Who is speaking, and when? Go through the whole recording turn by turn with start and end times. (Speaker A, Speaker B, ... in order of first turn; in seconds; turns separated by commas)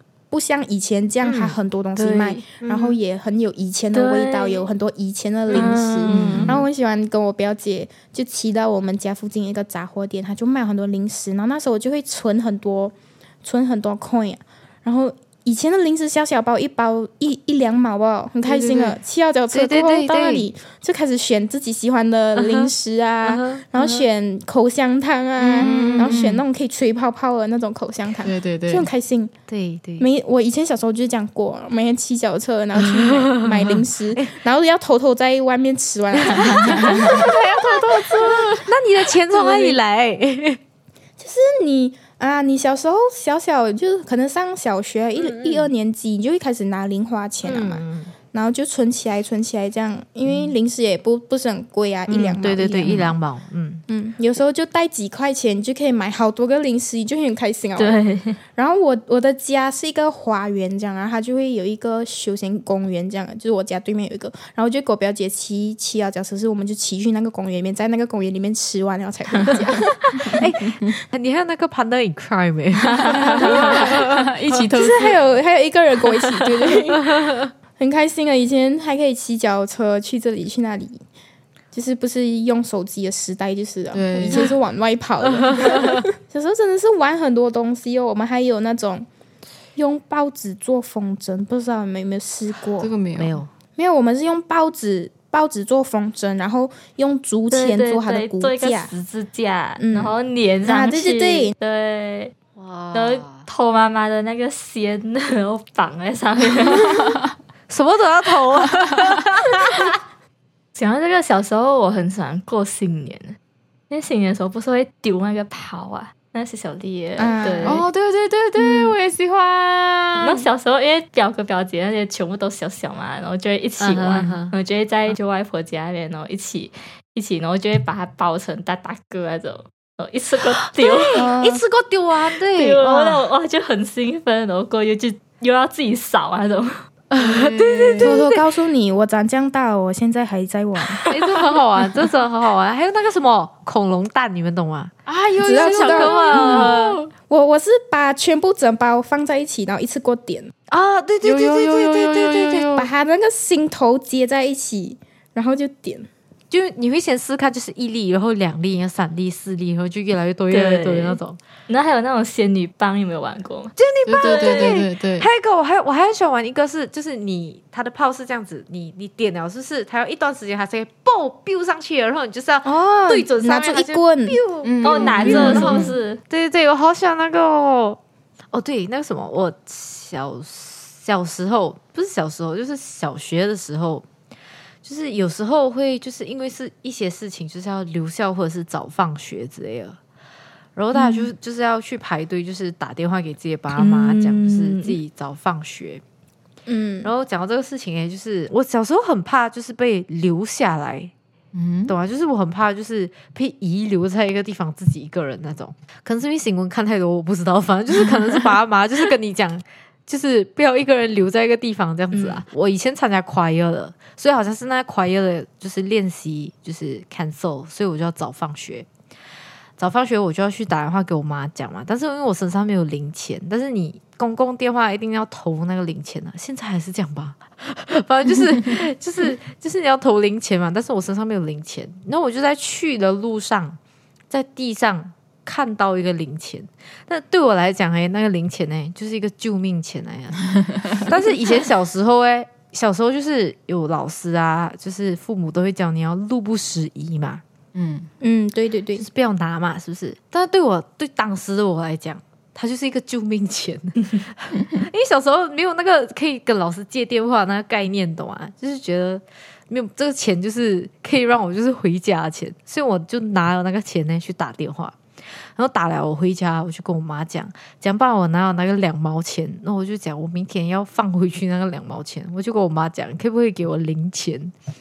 Speaker A: 0.3-29.3, Speaker B: 1.2-1.6, Speaker C: 2.0-2.4, Speaker B: 2.6-3.0, Speaker C: 3.9-4.7, Speaker C: 5.5-6.4, Speaker B: 5.5-6.6, Speaker D: 6.1-6.7, Speaker D: 18.4-19.0, Speaker B: 19.5-20.5, Speaker B: 22.4-22.7, Speaker B: 23.2-24.1, Speaker B: 25.4-26.2, Speaker D: 25.6-26.4, Speaker D: 28.2-28.9, Speaker B: 29.5-30.1, Speaker A: 30.0-37.3, Speaker B: 32.8-34.3, Speaker B: 36.2-37.5, Speaker D: 36.4-38.7, Speaker B: 38.2-40.6, Speaker A: 41.2-53.0, Speaker B: 45.2-45.7, Speaker B: 47.4-48.1, Speaker B: 52.1-53.8, Speaker D: 52.8-53.1, Speaker A: 53.9-58.0, Speaker C: 57.8-58.4, Speaker A: 58.5-70.4, Speaker B: 70.2-74.7, Speaker C: 72.8-73.5, Speaker D: 73.2-75.2, Speaker A: 74.7-81.0, Speaker B: 77.0-77.5, Speaker A: 81.7-89.1, Speaker D: 83.9-84.5, Speaker B: 85.3-86.0, Speaker A: 89.8-92.9, Speaker D: 92.8-93.4, Speaker B: 93.2-93.5, Speaker A: 93.8-98.9, Speaker C: 97.5-102.3, Speaker A: 99.8-101.5, Speaker B: 102.6-103.5, Speaker C: 102.9-107.2, Speaker D: 106.8-107.1, Speaker B: 107.7-110.0, Speaker C: 110.8-113.4, Speaker C: 113.9-117.8, Speaker A: 117.2-117.8, Speaker D: 117.6-120.5, Speaker C: 120.2-131.2, Speaker B: 123.8-124.5, Speaker B: 130.6-133.3, Speaker A: 131.2-131.6, Speaker C: 132.4-136.8, Speaker B: 137.1-138.4, Speaker D: 137.2-138.2, Speaker A: 138.0-141.1, Speaker B: 141.1-144.9, Speaker D: 145.1-147.1, Speaker A: 145.4-146.7, Speaker B: 145.5-147.0, Speaker A: 147.3-150.5, Speaker B: 150.7-152.7, Speaker D: 151.2-152.9, Speaker A: 152.7-156.1, Speaker B: 156.5-161.4, Speaker C: 160.5-164.8, Speaker B: 163.8-178.0, Speaker D: 164.1-165.3, Speaker A: 172.7-174.4, Speaker D: 174.6-175.9, Speaker C: 174.8-176.2, Speaker B: 178.5-184.1, Speaker B: 184.8-190.0, Speaker B: 190.8-196.0, Speaker C: 193.8-195.0, Speaker A: 196.7-197.1, Speaker B: 197.0-201.1, Speaker D: 201.5-201.9, Speaker B: 201.9-218.9, Speaker C: 212.1-212.4, Speaker B: 219.8-233.8, Speaker B: 234.3-247.4, Speaker D: 247.7-248.1, Speaker A: 248.2-249.1, Speaker B: 249.0-265.0, Speaker B: 265.6-274.5